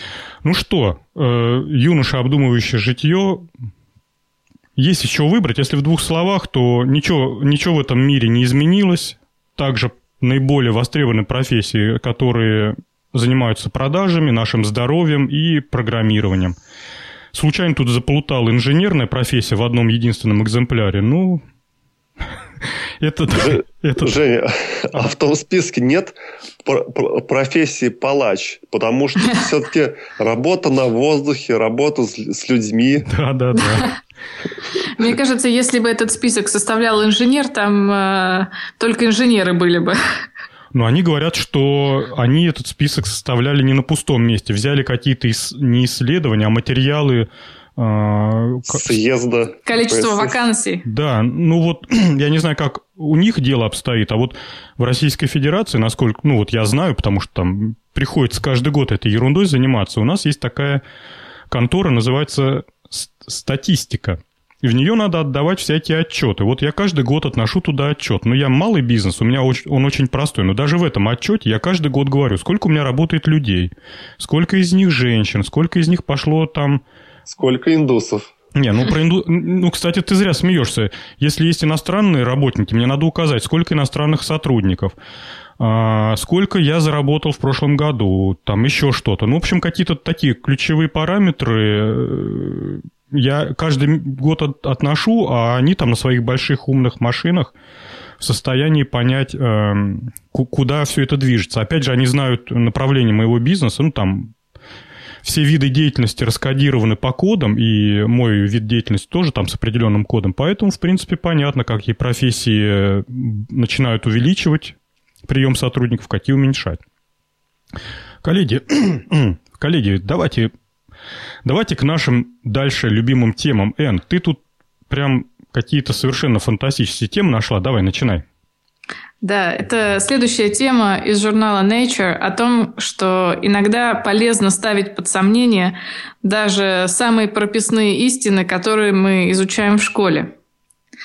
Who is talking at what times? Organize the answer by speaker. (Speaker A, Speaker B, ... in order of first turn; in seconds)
Speaker A: 0.4-3.5, 4.8-16.6, 17.3-21.4, 23.0-24.1, 33.1-33.9, 40.7-49.0, 50.9-60.8, 61.5-76.8, 78.5-85.0, 85.6-97.5, 98.2-104.3, 105.2-116.8, 118.2-120.5, 121.5-128.2
Speaker B: 23.3-33.1, 48.7-50.4, 77.3-78.3
Speaker C: 34.8-40.0, 49.7-50.9, 129.2-140.3